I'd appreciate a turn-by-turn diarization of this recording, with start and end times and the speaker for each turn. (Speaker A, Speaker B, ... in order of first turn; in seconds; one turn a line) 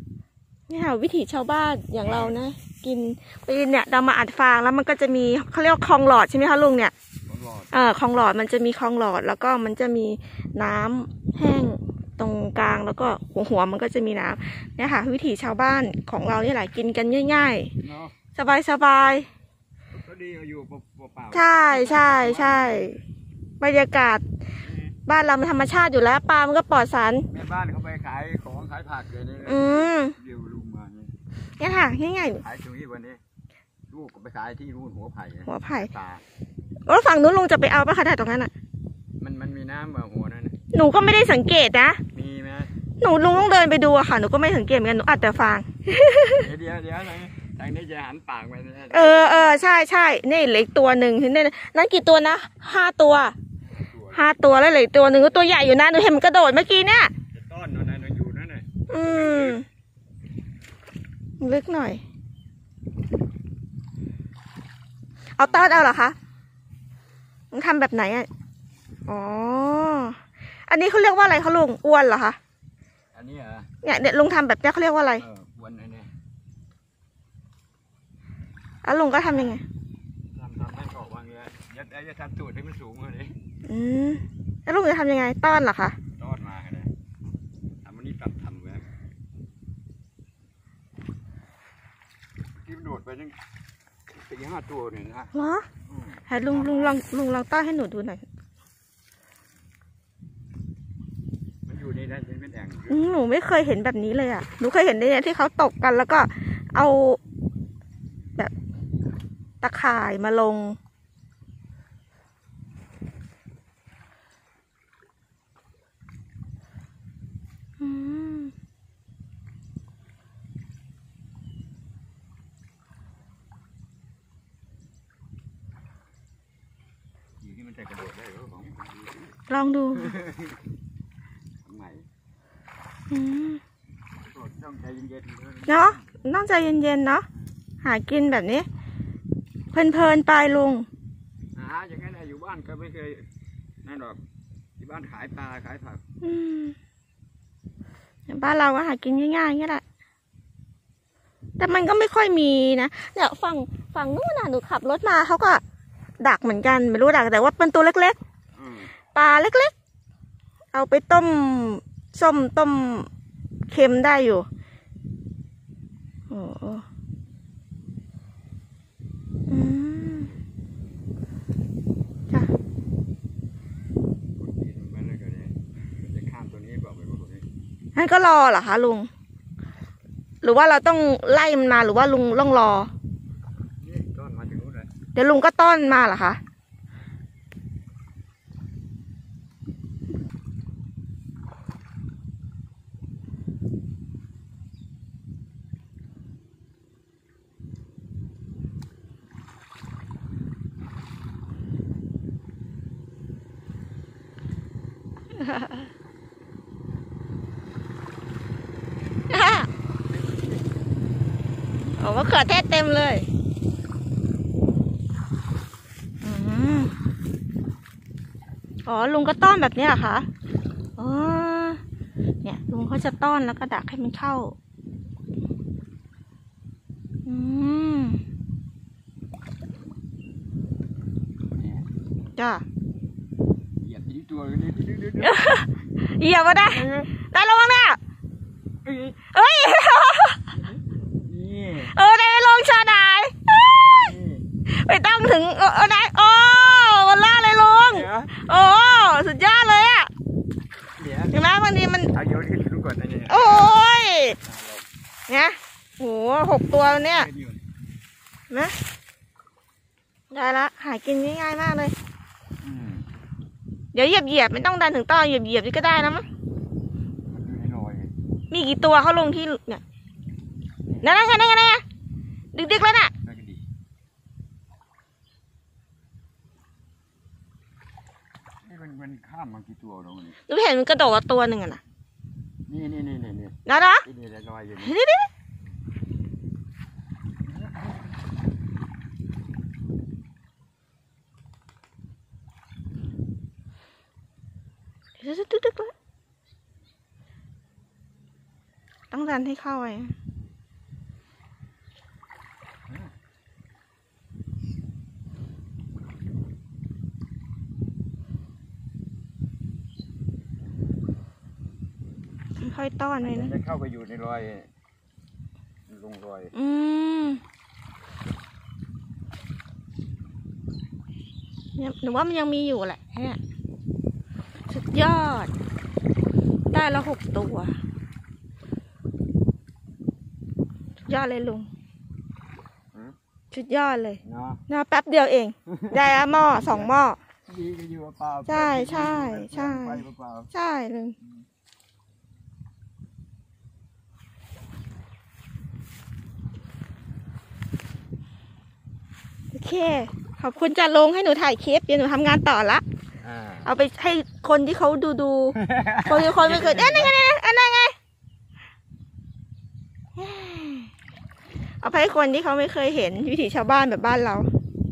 Speaker A: 0.7-6.9
Speaker B: 2.0-2.3
Speaker B: 7.3-7.7
Speaker A: 7.7-17.7
Speaker B: 17.8-18.2
Speaker A: 18.3-19.3
Speaker B: 19.9-22.9
Speaker A: 21.3-23.0
Speaker A: 23.6-24.2
Speaker B: 24.6-24.9
Speaker A: 25.1-27.3
Speaker B: 27.3-31.1
Speaker A: 29.4-30.1
Speaker A: 31.6-32.4
Speaker B: 32.3-33.2
Speaker B: 33.9-36.2
Speaker A: 35.5-35.9
Speaker A: 36.9-38.5
Speaker B: 39.2-40.5
Speaker A: 40.7-42.0
Speaker B: 42.1-42.7
Speaker A: 43.0-46.5
Speaker B: 46.4-49.6
Speaker A: 48.9-53.3
Speaker B: 53.6-54.3
Speaker A: 54.1-57.1
Speaker B: 57.3-59.6
Speaker A: 58.9-59.6
Speaker A: 61.4-62.0
Speaker A: 65.3-66.2
Speaker B: 65.4-65.9
Speaker A: 67.5-68.3
Speaker A: 69.1-72.4
Speaker B: 73.1-73.7
Speaker A: 73.8-75.2
Speaker B: 75.2-76.1
Speaker A: 78.8-79.6
Speaker B: 80.3-83.3
Speaker A: 83.7-86.0
Speaker B: 86.1-86.9
Speaker B: 87.8-88.9
Speaker B: 92.6-93.3
Speaker B: 94.1-95.3
Speaker A: 95.3-95.7
Speaker B: 95.9-97.1
Speaker A: 96.3-98.2
Speaker B: 101.7-103.0
Speaker A: 102.9-107.2
Speaker A: 109.6-110.8
Speaker A: 117.8-118.5
Speaker B: 127.4-129.4
Speaker A: 129.5-130.2
Speaker B: 130.0-130.6
Speaker B: 131.6-132.0
Speaker A: 133.1-133.6
Speaker B: 134.2-136.2
Speaker A: 135.7-137.2
Speaker A: 137.8-138.7
Speaker A: 139.7-140.9
Speaker B: 141.5-143.2
Speaker B: 143.8-144.2
Speaker B: 144.8-146.0
Speaker A: 146.2-146.8
Speaker A: 148.3-149.8
Speaker A: 151.6-155.6
Speaker A: 156.2-158.2
Speaker B: 158.6-158.9
Speaker A: 159.1-159.7
Speaker A: 160.7-163.1
Speaker A: 163.7-164.5
Speaker A: 166.3-166.8
Speaker A: 169.5-170.3
Speaker B: 174.4-177.4
Speaker A: 177.9-179.1
Speaker A: 180.4-182.9
Speaker B: 183.8-184.9
Speaker A: 185.1-186.4
Speaker A: 205.3-205.9
Speaker A: 209.3-209.7
Speaker B: 210.1-210.6
Speaker A: 212.0-213.2
Speaker A: 216.2-216.9
Speaker A: 218.8-220.3
Speaker A: 221.0-221.8
Speaker A: 222.4-224.5
Speaker A: 227.2-228.2
Speaker B: 231.6-231.9
Speaker A: 232.3-232.6
Speaker B: 233.8-235.4
Speaker A: 235.2-238.0
Speaker B: 236.6-237.1
Speaker B: 238.8-239.2
Speaker A: 239.3-240.6
Speaker B: 240.5-241.9
Speaker A: 241.9-244.1
Speaker B: 243.9-244.4
Speaker A: 244.7-250.1
Speaker B: 247.9-248.3
Speaker B: 251.0-251.4
Speaker A: 251.3-252.1
Speaker B: 252.1-253.8
Speaker A: 253.3-254.4
Speaker B: 254.4-254.8
Speaker A: 255.3-257.3
Speaker B: 256.7-257.6
Speaker A: 258.5-258.7
Speaker A: 260.3-261.9
Speaker B: 262.6-263.1
Speaker A: 263.9-266.2
Speaker B: 267.3-268.1
Speaker A: 268.5-269.8
Speaker A: 271.0-271.8
Speaker A: 272.5-273.1
Speaker B: 273.2-273.6
Speaker B: 278.6-280.4
Speaker A: 280.5-281.8
Speaker B: 282.7-284.9
Speaker A: 283.6-284.0
Speaker A: 284.8-285.3
Speaker B: 287.4-288.0
Speaker A: 295.2-295.9
Speaker A: 299.1-300.1
Speaker A: 312.6-313.5
Speaker B: 313.2-314.7
Speaker B: 315.9-316.5
Speaker A: 316.5-317.4
Speaker A: 321.8-323.4
Speaker A: 324.7-325.5
Speaker A: 326.7-327.8
Speaker A: 331.1-331.7
Speaker A: 333.5-337.2
Speaker B: 334.2-334.6
Speaker B: 335.7-336.9
Speaker B: 337.5-340.5
Speaker A: 338.4-341.1
Speaker A: 349.5-352.8
Speaker B: 353.2-353.7
Speaker A: 353.6-357.9
Speaker B: 355.5-357.1
Speaker A: 360.1-360.9
Speaker A: 361.8-364.5